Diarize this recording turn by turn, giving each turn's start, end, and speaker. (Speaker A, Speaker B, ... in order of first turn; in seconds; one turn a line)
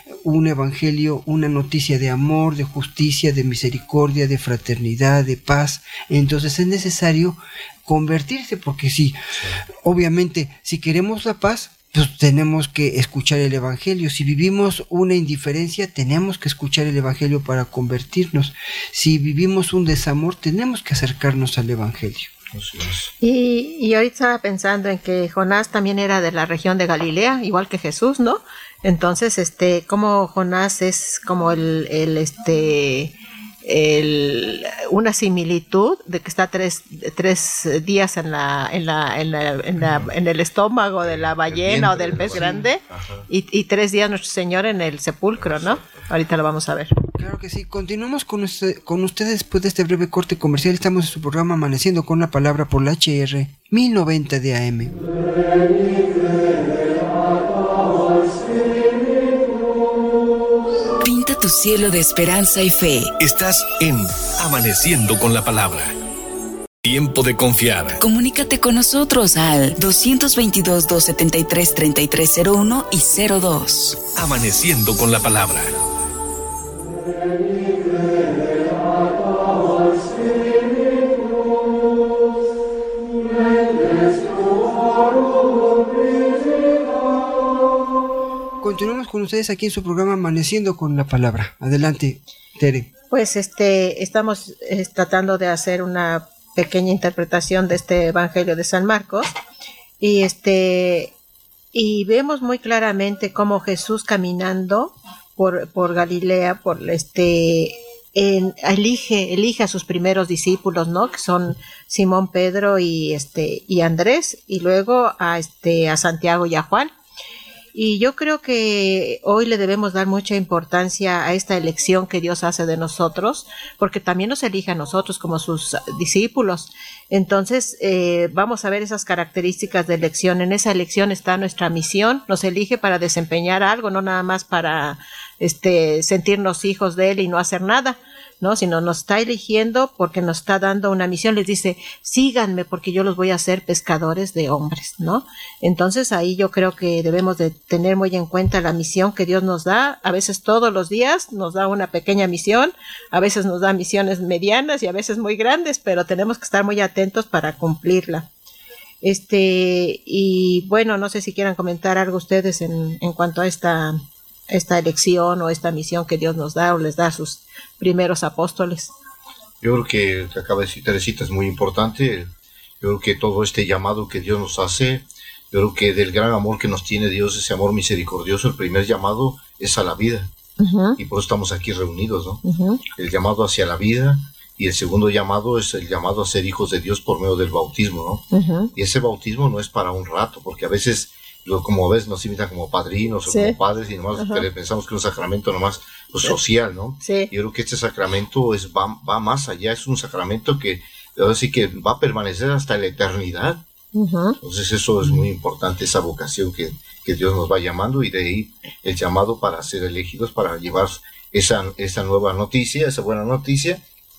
Speaker A: 0.2-9.2
Speaker A: 9.8-22.3
Speaker B: 22.5-23.1
Speaker C: 23.2-46.9
Speaker B: 41.0-43.3
Speaker A: 42.2-42.7
Speaker B: 45.4-46.1
Speaker A: 47.2-54.9
Speaker D: 61.0-63.1
Speaker E: 63.2-65.9
Speaker E: 66.8-68.0
Speaker D: 68.0-74.0
Speaker E: 74.1-75.8
Speaker A: 88.6-92.9
Speaker C: 93.1-99.3
Speaker C: 100.0-101.1
Speaker C: 101.7-116.9
Speaker C: 117.7-158.3
Speaker C: 159.0-164.0
Speaker C: 164.5-168.9
Speaker B: 169.6-172.3
Speaker B: 172.8-180.3
Speaker C: 180.6-181.0
Speaker B: 181.0-203.6
Speaker C: 182.4-182.8
Speaker C: 188.3-188.7
Speaker C: 193.3-193.6
Speaker C: 194.2-194.4
Speaker C: 197.0-197.3
Speaker C: 203.9-204.4
Speaker B: 204.4-213.8